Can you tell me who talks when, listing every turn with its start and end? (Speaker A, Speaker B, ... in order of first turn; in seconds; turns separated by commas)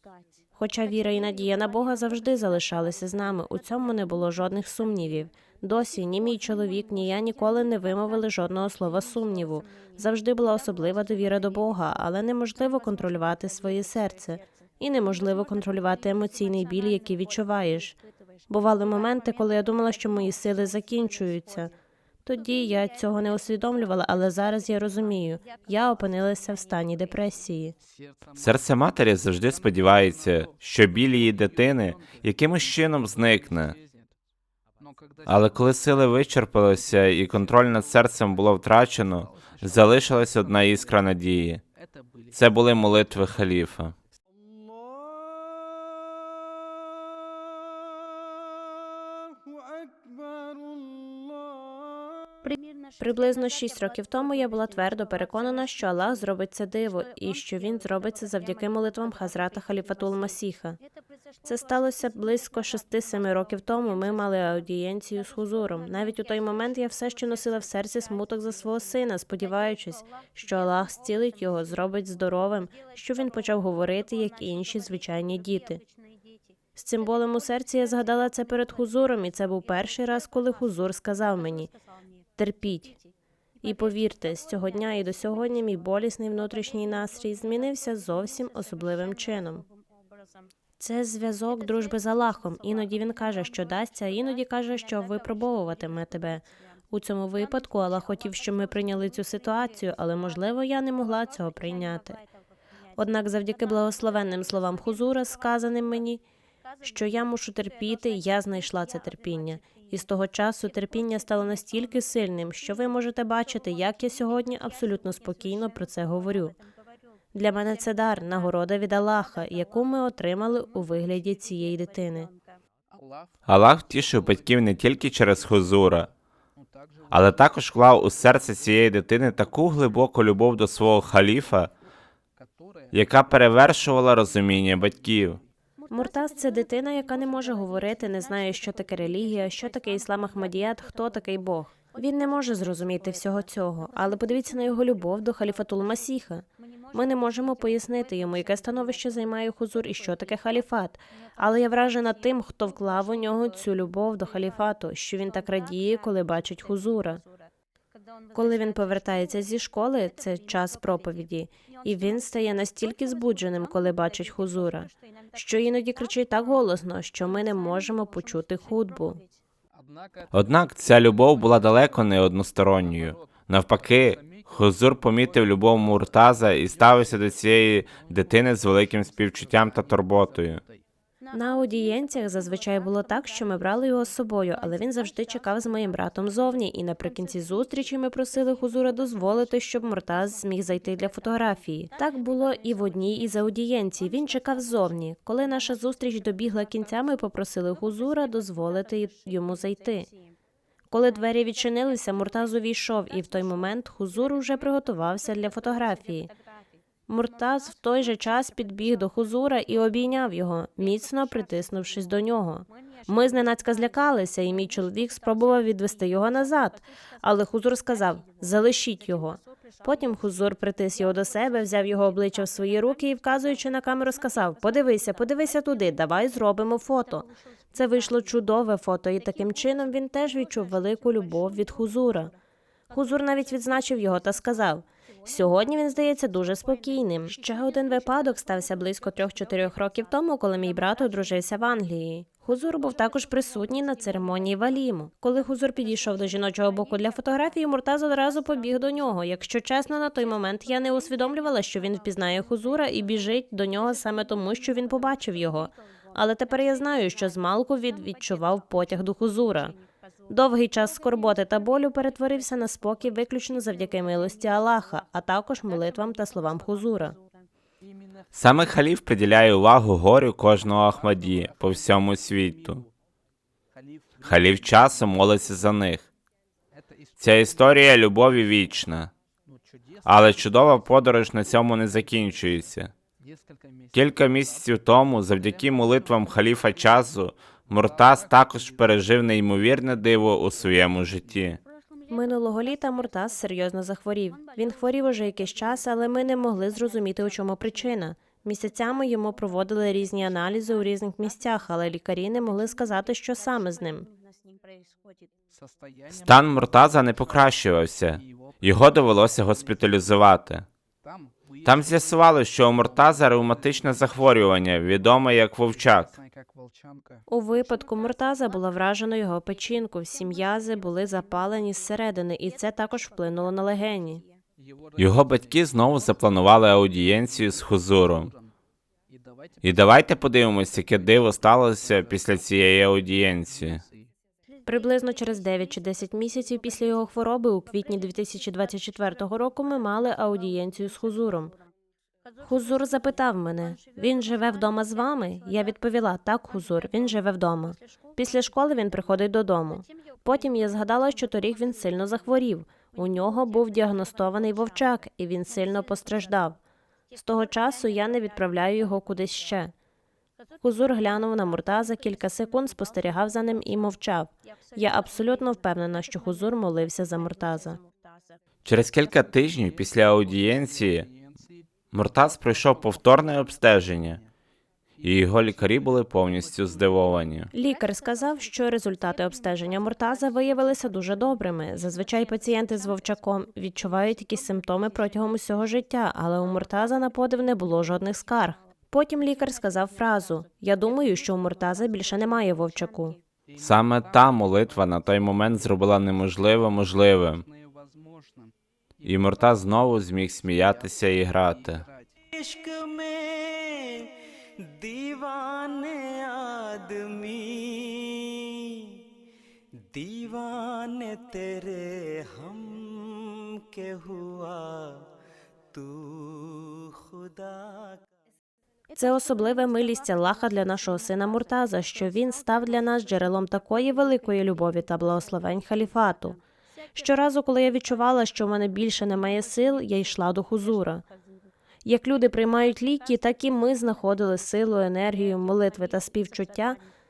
Speaker A: 0.5-21.7, Speaker A: 22.2-27.8, Speaker B: 28.3-33.8, Speaker B: 35.2-41.6, Speaker B: 42.3-43.9, Speaker A: 53.0-60.8, Speaker A: 61.4-75.8, Speaker A: 76.8-81.7, Speaker A: 82.4-83.0, Speaker A: 83.6-89.6, Speaker A: 90.8-102.2, Speaker A: 103.0-106.2, Speaker A: 106.8-116.6, Speaker A: 117.3-122.3, Speaker B: 123.5-126.1, Speaker B: 127.1-131.7, Speaker B: 132.9-135.4, Speaker A: 135.9-157.2, Speaker A: 158.3-169.2, Speaker B: 170.3-180.6, Speaker A: 181.3-200.1, Speaker A: 200.9-206.3, Speaker A: 207.1-232.3, Speaker A: 232.9-259.8, Speaker A: 260.3-267.2, Speaker B: 268.3-272.8, Speaker B: 274.2-276.1, Speaker B: 277.2-279.1, Speaker B: 280.0-282.9, Speaker B: 283.9-291.6, Speaker A: 292.1-304.1, Speaker B: 306.1-310.6, Speaker B: 311.6-316.2, Speaker A: 317.3-324.2, Speaker B: 325.0-328.3, Speaker B: 329.6-333.8, Speaker A: 334.6-341.5, Speaker A: 342.4-356.6, Speaker A: 357.1-359.7, Speaker A: 360.6-367.8, Speaker B: 368.6-371.1, Speaker B: 371.9-374.2, Speaker B: 375.0-377.5, Speaker A: 377.5-393.2, Speaker B: 393.6-397.4, Speaker B: 399.0-401.9, Speaker C: 402.3-409.0, Speaker C: 409.7-415.1, Speaker C: 415.7-418.0, Speaker A: 418.9-426.4, Speaker A: 426.9-431.0, Speaker A: 431.8-436.8